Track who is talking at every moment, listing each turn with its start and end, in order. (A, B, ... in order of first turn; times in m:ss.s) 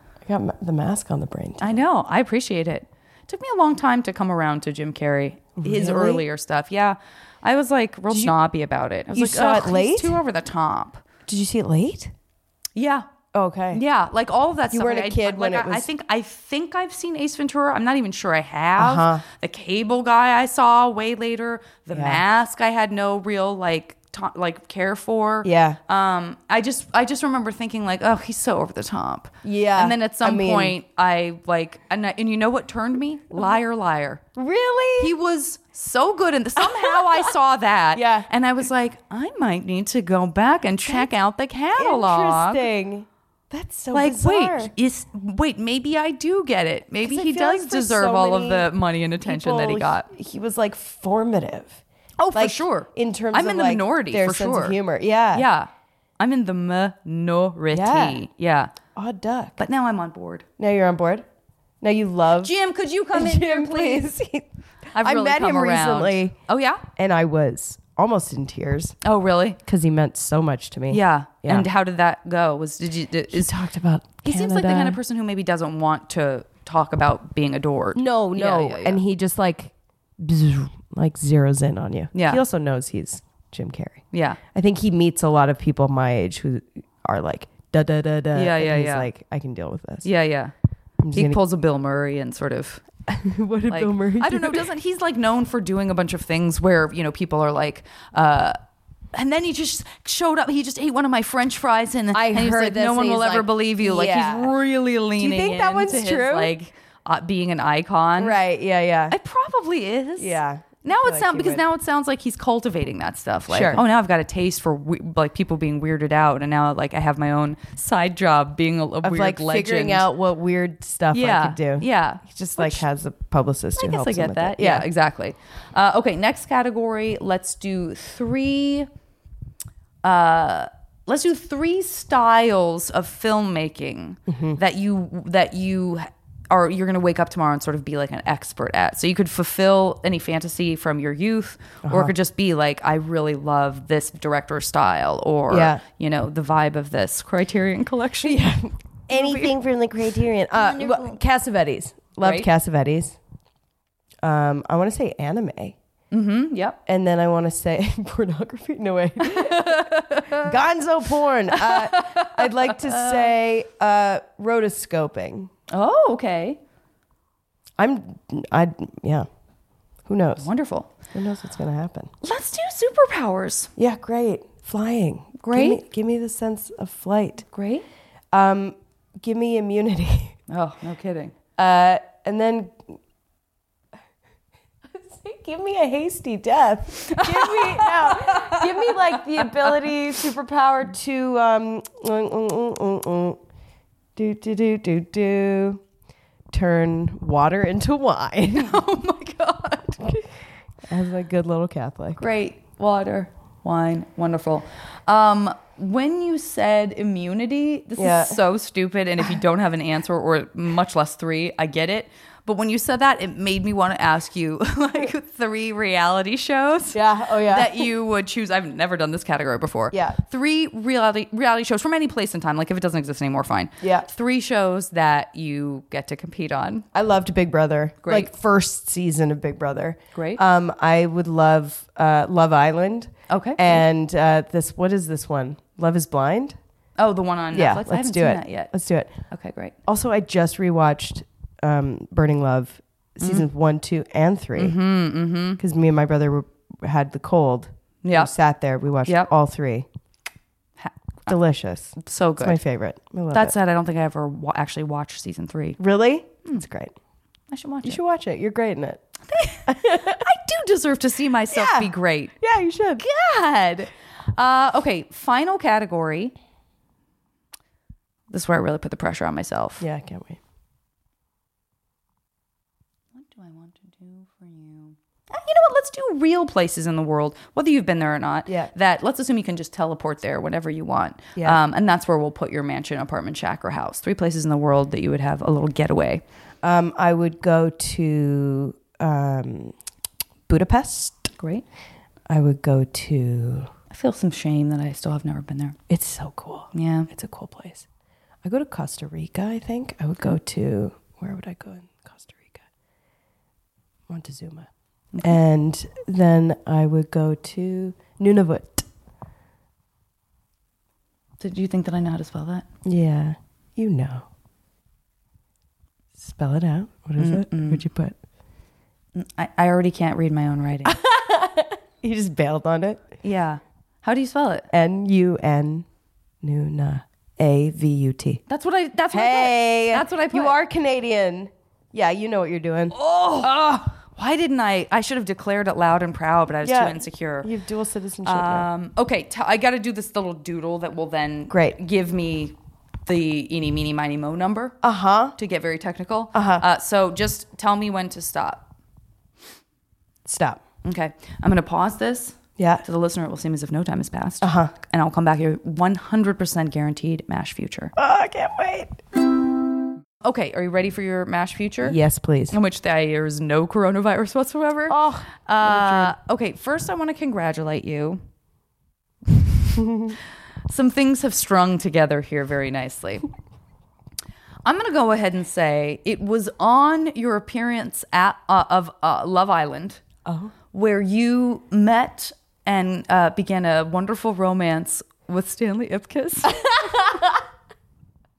0:00.2-0:01.8 A
0:01.6-0:11.0 B
0:05.6-0:06.2 A
0:09.1-0:10.2 A
0:11.3-0:12.1 A
0:12.8-0:13.0 B
0:13.3-0:13.8 A
0:13.7-0:34.2 B
0:14.7-0:15.8 A
0:18.8-0:19.2 A
0:21.9-0:22.2 A
0:25.4-0:25.8 A
0:29.4-0:30.8 A
0:34.3-0:35.1 A
0:35.0-0:42.6 B
0:36.6-0:37.3 A
0:37.9-0:38.3 A
0:41.8-0:44.7 A
0:43.9-0:50.1 B
0:47.0-0:48.7 A
0:49.2-0:51.8 A
0:52.2-0:54.8 B
0:52.3-0:55.4 A
0:55.3-0:58.7 B
0:57.7-0:58.2 A
0:58.9-0:59.6 A
0:59.6-1:00.4 B
1:00.6-1:01.2 A
1:01.8-1:02.5 A
1:02.4-1:04.1 B
1:03.1-1:06.3 A
1:04.9-1:06.8 B
1:06.9-1:09.0 A
1:09.0-1:09.6 B
1:09.6-1:11.7 A
1:10.9-1:13.6 B
1:13.3-1:15.0 A
1:14.2-1:19.0 B
1:17.9-1:30.1 A
1:22.1-1:22.4 B
1:24.1-1:24.4 B
1:28.3-1:29.1 B
1:30.0-1:30.5 B
1:31.0-1:31.4 A
1:31.1-1:32.8 B
1:33.1-1:34.6 A
1:33.7-1:38.6 B
1:39.1-1:48.4 B
1:42.1-1:44.5 A
1:45.2-1:46.5 A
1:48.2-1:49.1 A
1:49.1-2:00.1 B
1:50.2-1:51.6 A
1:53.5-1:53.8 A
1:59.0-2:04.8 A
2:01.1-2:02.8 B
2:03.8-2:08.9 B
2:10.0-2:28.4 B
2:14.3-2:14.6 A
2:21.8-2:22.1 A
2:25.5-2:25.8 A
2:28.2-2:33.2 A
2:29.1-2:29.5 B
2:30.5-2:31.2 B
2:32.2-2:32.5 B
2:34.2-2:35.8 A
2:36.1-2:36.8 B
2:36.8-2:45.5 A
2:39.2-2:40.5 B
2:41.5-2:43.3 B
2:45.7-2:46.6 B
2:47.8-2:49.3 A
2:50.0-2:50.4 A
2:50.4-2:50.9 B
2:51.1-2:52.1 A
2:52.2-2:53.7 B
2:53.8-2:57.4 A
2:55.4-2:55.8 B
2:57.5-2:57.8 B
2:58.3-3:00.4 A
3:00.5-3:01.3 B
3:01.6-3:03.0 A
3:04.9-3:13.4 A
3:07.0-3:09.9 B
3:14.2-3:15.8 A
3:16.5-3:18.8 A
3:18.5-3:20.0 B
3:20.9-3:22.2 A
3:22.2-3:46.8 B
3:28.0-3:28.4 A
3:36.9-3:37.9 A
3:39.9-3:40.2 A
3:43.8-3:44.1 A
3:46.9-3:56.6 A
3:48.0-3:48.3 B
3:50.1-3:50.4 B
3:53.3-3:53.8 B
3:57.0-3:58.7 B
3:57.5-3:59.1 A
3:59.3-3:59.7 B
3:59.8-4:04.8 A
4:03.2-4:03.4 B
4:04.6-4:05.6 B
4:05.6-4:09.9 A
4:08.0-4:08.3 B
4:09.0-4:09.3 B
4:10.8-4:11.3 B
4:11.3-4:13.5 A
4:12.0-4:12.6 B
4:13.3-4:15.8 B
4:15.8-4:16.9 A
4:17.5-4:18.0 B
4:17.8-4:19.0 A
4:19.3-4:22.3 B
4:19.6-4:20.2 A
4:21.5-4:23.8 A
4:23.0-4:23.4 B
4:24.3-4:26.3 B
4:28.3-4:29.9 B
4:29.8-4:30.4 A
4:33.1-4:46.2 B
4:46.6-4:49.7 A
4:50.5-4:51.3 A
4:51.4-4:51.6 B
4:52.3-4:53.7 A
4:53.9-4:55.8 B
4:55.9-4:57.8 A
4:56.7-4:57.1 B
4:58.4-5:02.6 A
5:04.1-5:04.7 A
5:05.2-5:08.9 A
5:11.4-5:12.6 B
5:12.8-5:14.3 A
5:16.2-5:18.2 A
5:17.2-5:17.8 B
5:19.1-5:21.0 B
5:20.8-5:23.1 A
5:23.2-5:24.7 B
5:24.7-5:25.8 A
5:26.4-5:28.4 A
5:28.5-5:30.6 B
5:29.1-5:32.9 A
5:32.9-5:37.5 B
5:36.6-5:38.7 A
5:38.2-5:42.5 B
5:41.5-5:41.8 A
5:43.0-5:44.8 B
5:44.8-5:45.3 A
5:45.3-5:48.6 B
5:46.3-5:46.6 A
5:50.2-5:50.6 A
5:50.8-5:57.9 B
5:52.6-5:52.8 A
5:54.4-5:54.7 A
5:58.0-5:59.0 A
6:00.2-6:02.0 B
6:01.8-6:02.5 A
6:02.5-6:08.2 B
6:04.9-6:06.1 A
6:09.3-6:09.9 B
6:10.7-6:13.2 B
6:14.6-6:20.0 B
6:20.2-6:20.5 A
6:20.7-6:26.8 B
6:26.4-6:27.4 A